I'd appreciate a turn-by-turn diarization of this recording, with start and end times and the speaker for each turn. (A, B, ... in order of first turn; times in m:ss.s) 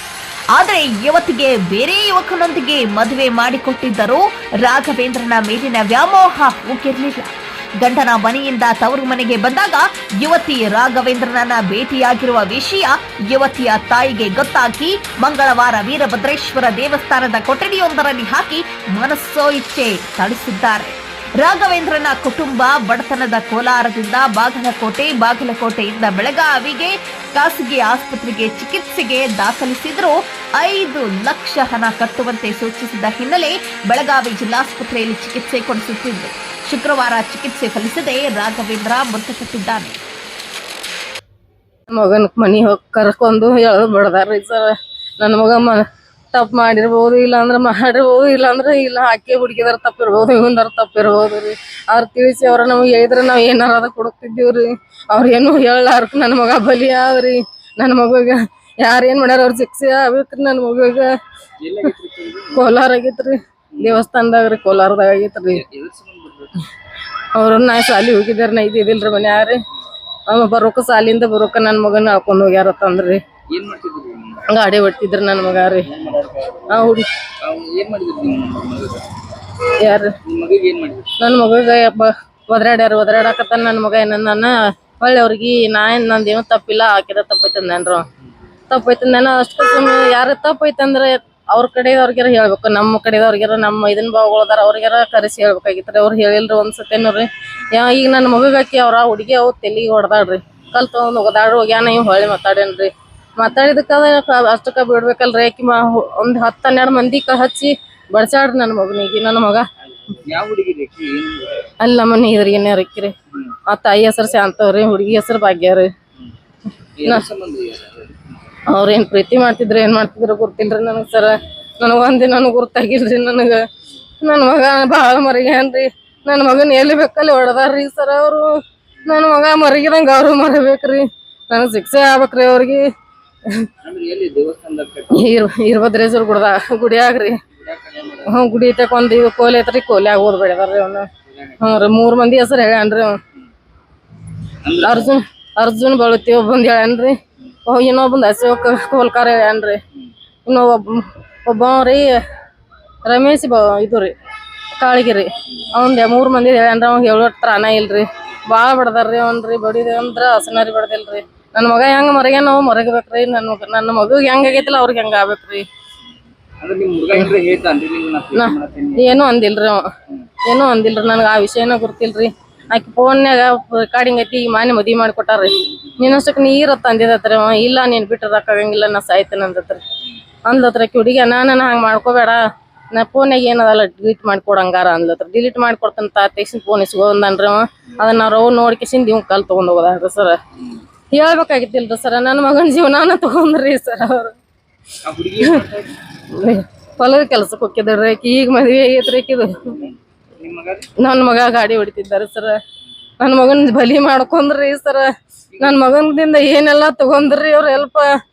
0:00.5-0:40.0 A
0:41.9-1:01.1 B
1:01.6-1:02.6 C
1:02.5-1:05.6 B
1:03.8-1:04.0 C
1:05.5-1:06.6 C
1:07.3-1:09.6 B
1:10.3-1:13.2 B
1:13.5-1:14.5 C
1:14.5-1:15.9 B
1:16.0-1:16.7 C
1:16.7-1:17.1 B
1:17.4-1:19.1 C
1:19.8-1:20.2 B
1:20.2-1:21.1 C
1:21.2-1:28.0 B
1:28.7-1:49.6 B
1:49.9-1:51.7 C
1:51.8-1:53.1 B
1:53.7-1:55.9 B
1:57.0-1:58.2 C
1:58.7-2:03.6 B
2:04.2-2:08.5 B
2:09.0-2:12.8 B
2:13.8-2:15.3 C
2:15.1-2:17.4 B
2:17.6-2:18.4 C
2:18.3-2:21.1 B
2:21.3-2:21.8 C
2:21.6-2:23.2 B
2:24.6-2:25.1 C
2:24.8-2:29.8 B
2:30.4-2:32.1 B
2:33.0-2:34.1 B
2:34.8-2:45.6 B
2:46.6-2:49.2 C
2:48.3-2:49.9 B
2:50.4-2:59.8 B
3:00.4-3:02.4 B
3:02.9-3:10.4 B
3:11.1-3:14.4 B
3:15.0-3:16.0 C
3:16.3-3:19.8 B
3:19.7-3:20.9 C
3:21.0-3:22.6 B
3:23.2-3:25.1 B
3:25.6-3:28.1 B